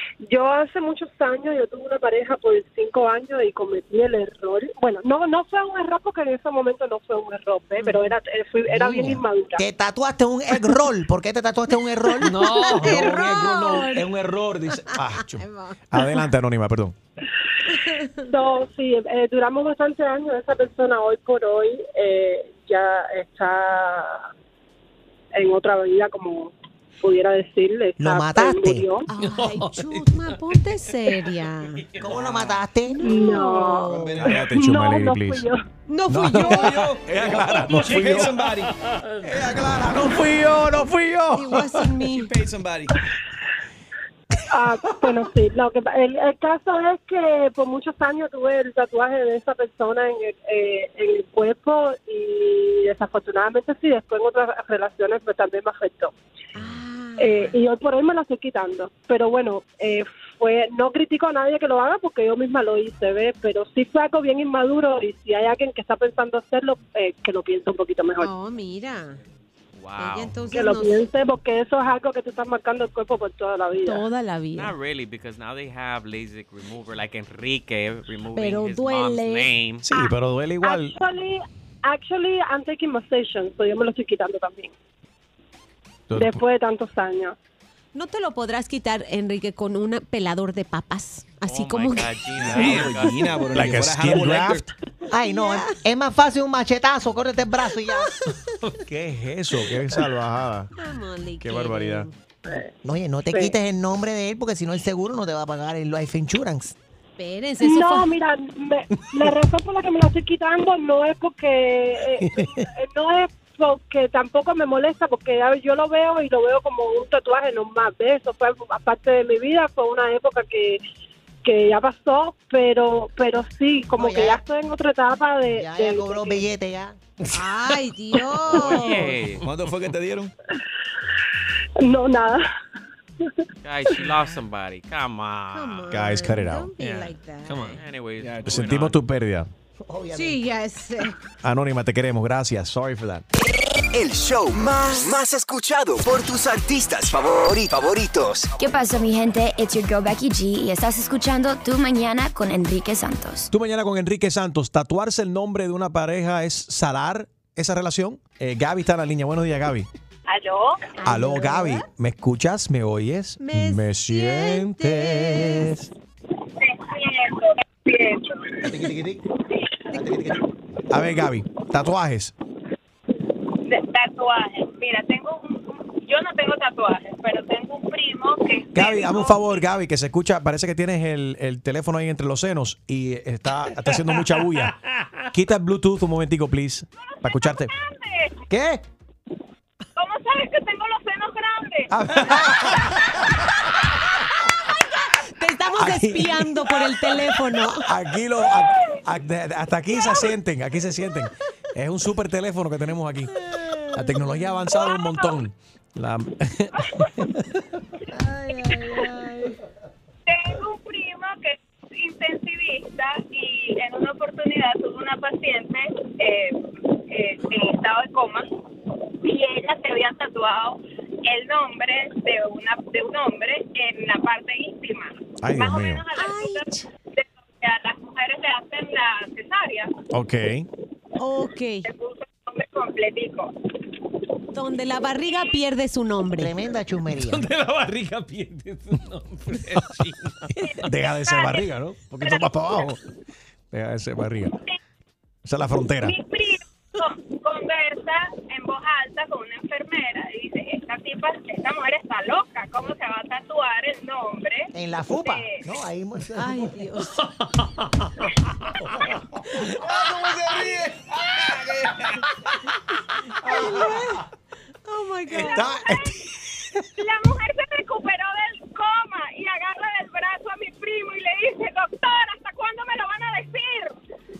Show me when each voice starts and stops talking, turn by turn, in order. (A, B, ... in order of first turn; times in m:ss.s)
0:00.2-0:09.6 A
0:07.8-0:08.1 B
0:08.8-0:09.1 C
0:08.8-0:09.1 B
0:09.6-0:12.6 D
0:12.2-0:14.1 B
0:12.2-0:17.0 C
0:14.7-0:16.1 B
0:17.7-0:18.3 B
0:18.3-0:24.3 A
0:25.3-0:29.1 A
0:28.0-0:28.9 D
0:29.1-0:31.9 B
0:29.2-0:30.4 E
0:31.9-0:32.2 E
0:32.0-0:33.0 D
0:33.0-0:34.2 B
0:33.0-0:35.6 A
0:33.8-0:34.4 F
0:34.2-0:35.4 C
0:35.9-0:36.9 B
0:36.1-0:38.4 C
0:36.4-0:38.7 F
0:38.9-0:39.2 E
0:39.2-0:41.4 F
0:40.2-0:41.4 C
0:41.3-0:42.3 B
0:42.0-0:42.9 F
0:44.5-0:56.1 A
0:56.5-0:57.5 B
0:57.2-1:08.3 A
1:08.2-1:09.2 B
1:09.8-1:10.4 G
1:10.0-1:11.0 B
1:10.5-1:14.0 A
1:13.8-1:14.7 B
1:14.6-1:19.8 G
1:18.3-1:19.5 B
1:19.8-1:21.0 C
1:20.6-1:24.7 A
1:26.1-1:26.4 C
1:26.1-1:27.4 A
1:27.9-1:32.1 B
1:31.4-1:33.4 G
1:32.4-1:34.7 F
1:33.5-1:34.7 C
1:35.1-1:38.1 D
1:35.3-1:35.7 B
1:38.8-1:40.7 C
1:40.8-1:42.1 B
1:41.4-1:42.1 C
1:42.8-1:46.7 D
1:47.2-1:48.1 B
1:47.6-2:00.8 A
1:52.2-1:52.6 D
2:01.4-2:06.4 A
2:04.0-2:04.4 D
2:05.5-2:07.0 D
2:07.3-2:09.1 B
2:08.5-2:09.5 G
2:09.4-2:10.3 F
2:11.8-2:12.4 A
2:13.6-2:16.0 G
2:15.5-2:17.8 B
2:15.9-2:16.7 C
2:16.8-2:17.8 E
2:17.7-2:19.0 G
2:18.2-2:18.7 F
2:18.4-2:19.5 C
2:19.8-2:20.4 D
2:20.1-2:21.1 B
2:21.4-2:23.2 C
2:23.9-2:28.5 H
2:28.6-2:33.5 I
2:33.5-2:39.9 C
2:40.3-2:40.8 J
2:41.0-2:41.8 B
2:41.0-2:45.9 C
2:43.4-2:45.7 B
2:46.6-2:48.8 J
2:48.6-2:49.2 D
2:49.9-2:50.4 D
2:50.9-2:52.3 C
2:53.6-2:59.6 J
2:58.7-3:04.7 C
3:05.3-3:07.7 C
3:07.0-3:08.4 J
3:08.5-3:08.8 C
3:10.0-3:11.9 J
3:11.9-3:13.1 C
3:15.4-3:17.9 B
3:15.7-3:16.6 C
3:17.7-3:23.3 C
3:18.4-3:19.0 J
3:23.4-3:24.5 B
3:23.9-3:26.9 C
3:24.7-3:25.4 J
3:26.8-3:27.1 J
3:28.1-3:29.6 B
3:28.6-3:29.1 J
3:30.2-3:38.5 J
3:39.2-3:49.9 J
3:45.4-3:46.0 C
3:46.2-3:46.8 B
3:50.1-3:50.7 C
3:51.2-3:51.9 B
3:51.8-3:53.5 J
3:54.5-3:56.7 B
3:56.4-3:57.5 D
3:57.2-4:00.6 E
4:00.8-4:03.0 C
4:01.0-4:02.9 J
4:03.7-4:04.6 C
4:05.4-4:06.2 C
4:06.0-4:15.6 J
4:14.7-4:16.7 D
4:16.4-4:17.2 B
4:19.7-4:22.2 F
4:23.4-4:24.2 B
4:24.9-4:25.7 B
4:25.4-4:26.2 J
4:25.5-4:25.8 D
4:27.0-4:34.0 J